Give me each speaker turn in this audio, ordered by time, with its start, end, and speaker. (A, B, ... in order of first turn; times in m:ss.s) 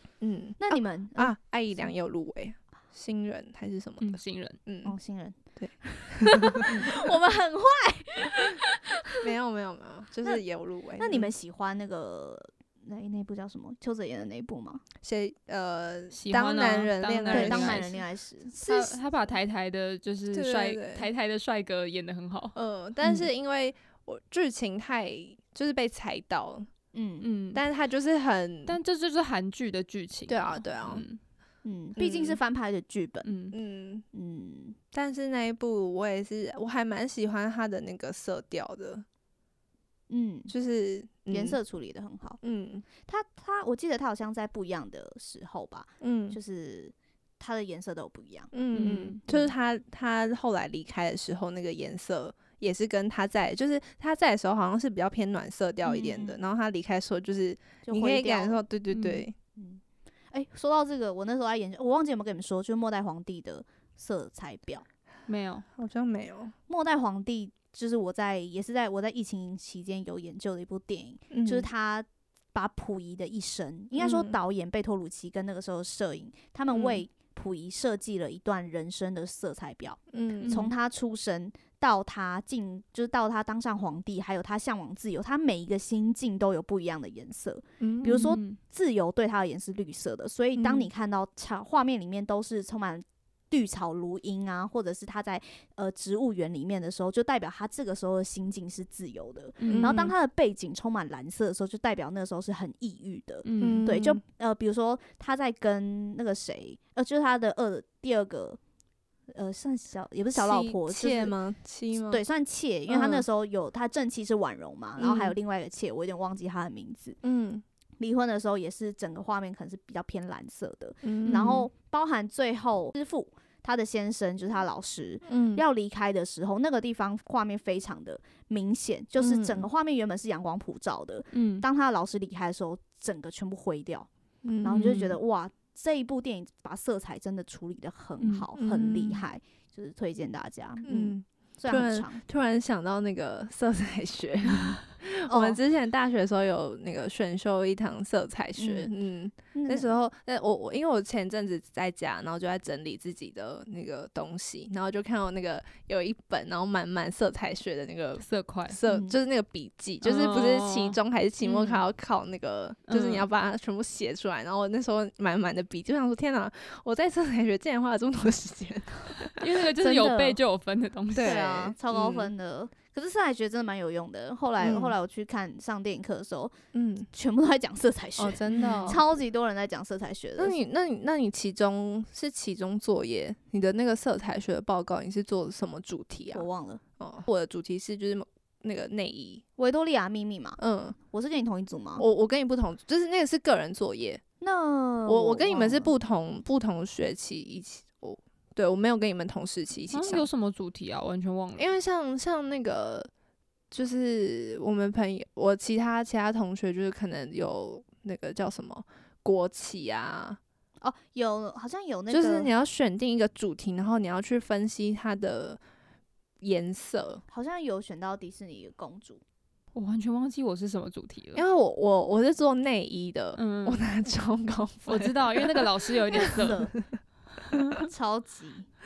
0:00.2-0:04.9 A
0:00.6-0:01.3 B
0:04.0-0:04.6 C
0:04.8-0:09.2 B
0:05.6-0:06.9 A
0:09.2-0:11.3 A
0:11.0-0:14.8 B
0:15.0-0:17.9 A
0:16.1-0:18.0 C
0:17.3-0:18.6 B
0:18.5-0:22.5 C
0:18.7-0:18.9 A
0:20.3-0:21.1 A
0:22.5-0:26.7 A
0:26.9-0:27.2 B
0:27.2-0:27.6 C
0:27.5-0:28.8 A
0:28.7-0:31.2 C
0:30.3-0:31.0 A
0:31.6-0:33.3 B
0:32.0-0:32.4 A
0:33.2-0:33.6 C
0:33.5-0:34.0 A
0:34.1-0:34.8 B
0:34.9-0:39.0 A
0:40.1-0:40.5 B
0:40.5-0:41.6 A
0:41.3-0:42.4 B
0:42.4-0:42.8 A
0:43.0-0:48.5 B
0:46.0-0:46.4 A
0:48.5-0:59.3 A
0:48.7-0:49.2 C
0:55.8-0:56.3 B
0:57.8-0:58.6 B
0:58.9-0:59.2 C
0:59.6-1:04.8 B
1:05.3-1:05.6 C
1:05.8-1:06.5 A
1:06.7-1:48.6 B
1:11.3-1:11.7 A
1:13.9-1:14.3 A
1:16.7-1:17.0 A
1:20.1-1:20.6 A
1:20.4-1:20.7 C
1:27.8-1:28.4 A
1:28.1-1:28.6 C
1:30.6-1:30.9 A
1:39.6-1:40.1 C
1:39.6-1:40.1 A
1:43.4-1:43.9 C
1:43.6-1:44.2 A
1:49.3-1:51.4 B
1:50.3-1:52.2 A
1:51.9-1:57.2 B
1:52.9-1:53.2 A
1:55.0-1:55.3 A
1:57.2-1:57.6 A
1:58.0-2:14.1 B
2:01.0-2:01.7 A
2:01.2-2:01.6 C
2:05.2-2:05.6 A
2:09.2-2:09.6 A
2:11.3-2:11.6 C
2:14.4-2:15.2 A
2:14.6-2:22.2 B
2:18.2-2:18.5 C
2:18.5-2:19.2 A
2:20.8-2:49.6 A
2:25.3-2:25.6 B
2:28.6-2:28.9 B
2:29.5-2:29.9 B
2:38.2-2:38.8 C
2:38.9-2:39.2 B
2:40.0-2:41.8 C
2:42.9-2:43.2 C
2:49.4-2:51.4 C
2:49.8-2:50.4 B
2:51.1-2:52.3 A
2:51.2-2:56.5 B
2:54.6-2:54.9 A
2:56.7-2:57.1 A
2:57.1-3:00.6 B
2:58.2-2:59.0 A
2:58.5-2:58.9 C
3:00.4-3:06.4 A
3:06.3-3:06.8 B
3:07.0-3:09.4 A
3:09.6-3:10.6 B
3:10.6-3:11.0 A
3:11.1-3:12.0 B
3:12.0-3:14.2 A
3:14.4-3:15.9 B
3:15.0-3:20.3 A
3:19.9-3:21.7 C
3:21.6-3:23.1 A
3:23.7-3:30.4 A
3:30.8-3:32.5 B
3:32.1-3:35.6 A
3:36.4-3:37.2 A
3:37.3-3:39.2 B
3:39.7-3:41.4 C
3:41.3-3:47.0 A
3:43.4-3:43.8 C
3:44.9-3:46.6 C
3:46.1-3:46.7 B
3:47.7-3:48.7 B